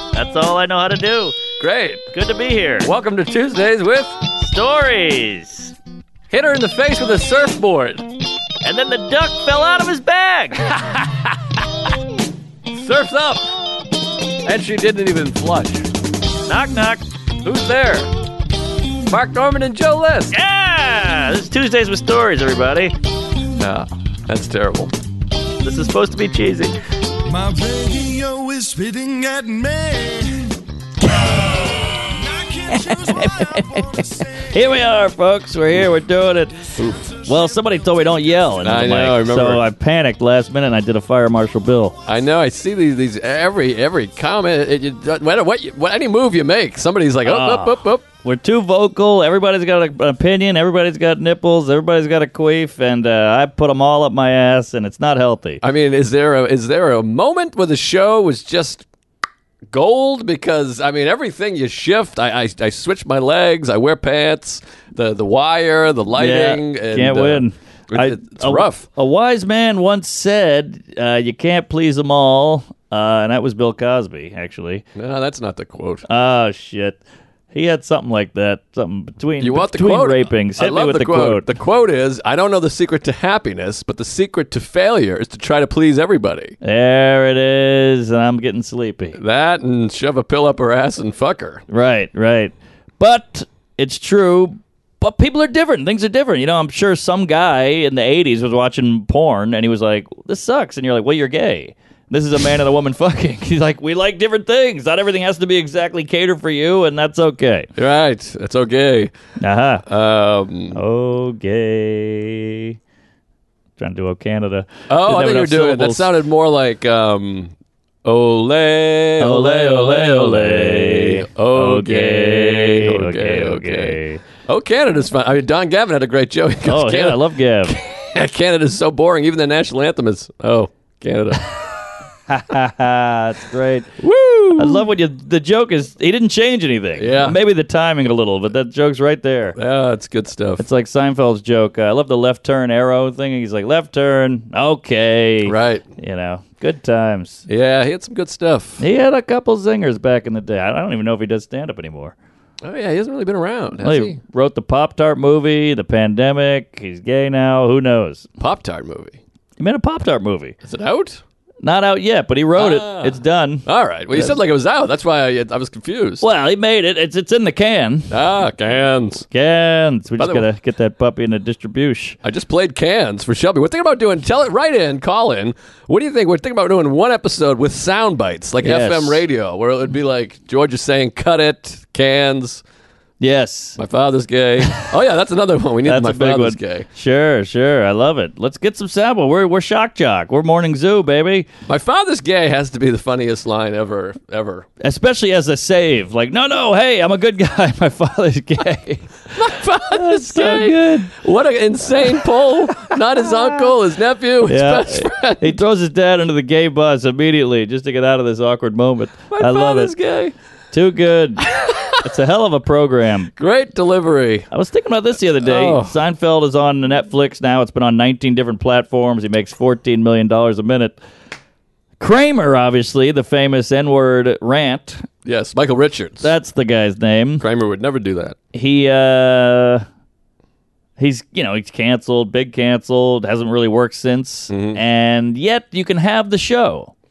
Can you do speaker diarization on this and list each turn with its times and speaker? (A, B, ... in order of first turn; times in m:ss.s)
0:00.1-0:01.4 A
0:01.6-0:02.1 B
0:02.1-0:02.9 A
0:02.8-0:04.2 B
0:04.4-0:05.8 A
0:06.3-0:08.0 B
0:08.6-0:10.7 A
0:12.7-0:13.4 B
0:14.4-0:15.9 B
0:16.4-0:17.0 A
0:17.4-0:18.1 B
0:19.1-0:20.4 B
0:20.3-0:23.0 A
0:23.6-0:24.9 B
0:25.6-0:26.7 A
0:27.2-0:34.8 C
0:31.2-0:31.9 A
0:32.7-0:42.0 A
0:36.8-0:38.2 C
0:38.6-0:39.6 B
0:42.0-0:48.0 B
0:47.2-0:55.6 A
0:55.6-0:58.9 B
0:59.7-1:08.8 B
1:06.1-1:14.9 A
1:14.9-1:16.0 B
1:16.1-1:17.0 A
1:17.5-1:21.5 A
1:19.4-1:26.6 B
1:26.6-1:29.2 A
1:29.2-1:31.6 B
1:31.7-1:47.7 A
1:47.8-1:49.1 B
1:49.4-1:49.8 A
1:49.9-1:50.8 B
1:50.7-1:52.8 A
1:53.8-1:56.1 A
1:54.9-1:57.5 B
1:58.0-2:11.7 B
1:59.2-2:04.2 A
2:06.6-2:07.8 A
2:12.3-2:13.9 A
2:14.0-2:14.8 B
2:14.6-2:19.6 A
2:17.0-2:17.4 B
2:19.6-2:20.6 B
2:20.6-2:27.4 A
2:25.4-2:25.8 B
2:27.5-2:28.8 B
2:28.8-2:32.1 A
2:32.6-2:34.2 B
2:33.8-2:38.3 A
2:38.4-2:39.2 B
2:39.6-2:40.6 A
2:40.6-2:41.2 B
2:41.6-2:44.4 A
2:42.6-2:46.2 B
2:46.2-2:48.1 A
2:48.1-2:49.3 B
2:49.3-2:52.2 A
2:50.2-2:50.4 B
2:52.2-3:02.6 B
2:58.6-2:59.2 A
3:03.2-3:03.8 A
3:03.8-3:06.9 B
3:04.6-3:04.8 A
3:05.8-3:11.5 A
3:11.7-3:14.7 B
3:14.8-3:21.1 A
3:19.3-3:25.6 B
3:22.8-3:23.4 A
3:24.4-3:29.9 A
3:29.3-3:30.3 B
3:30.7-3:33.3 A
3:31.5-3:32.0 B
3:33.4-3:34.5 B
3:34.5-3:41.0 A
3:35.4-3:36.0 B
3:42.0-3:45.1 A
3:45.2-3:46.3 B
3:46.2-3:47.4 A
3:47.4-3:48.4 B
3:48.5-3:49.8 A
3:51.0-3:56.9 A
3:54.5-3:54.8 B